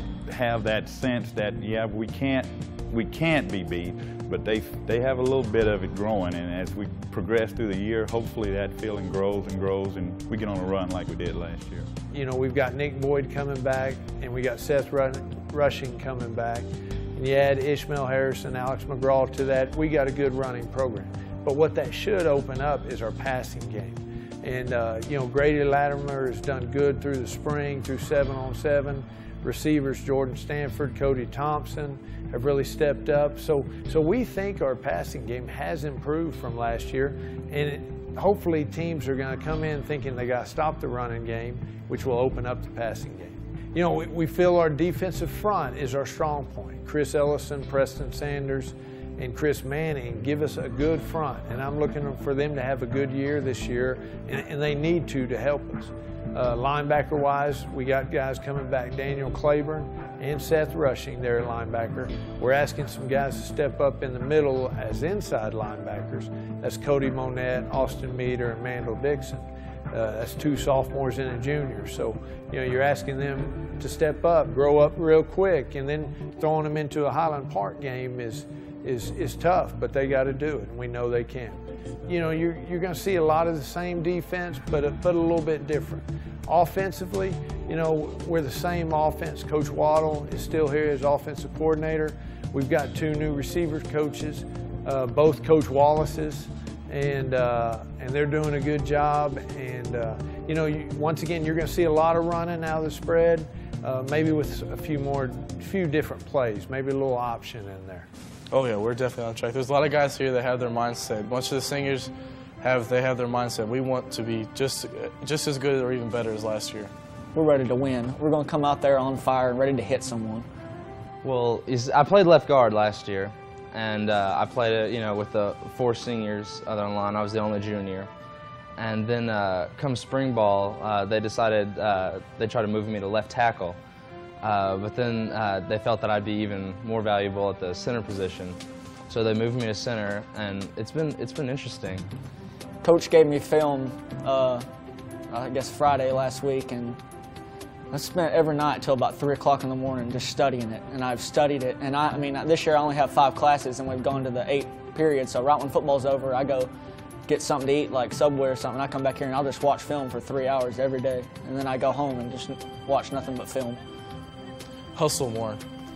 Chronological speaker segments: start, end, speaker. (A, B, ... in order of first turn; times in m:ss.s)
0:00.3-0:11.9 A
0:12.1-1:48.1 B
1:48.5-1:56.9 C
1:57.3-2:00.5 D
2:01.2-2:08.1 E
2:08.8-2:13.8 E
2:14.4-2:22.1 E
2:22.8-2:24.6 D
2:25.3-2:27.0 D
2:27.9-2:36.7 D
2:37.3-2:43.8 D
2:44.9-2:45.6 C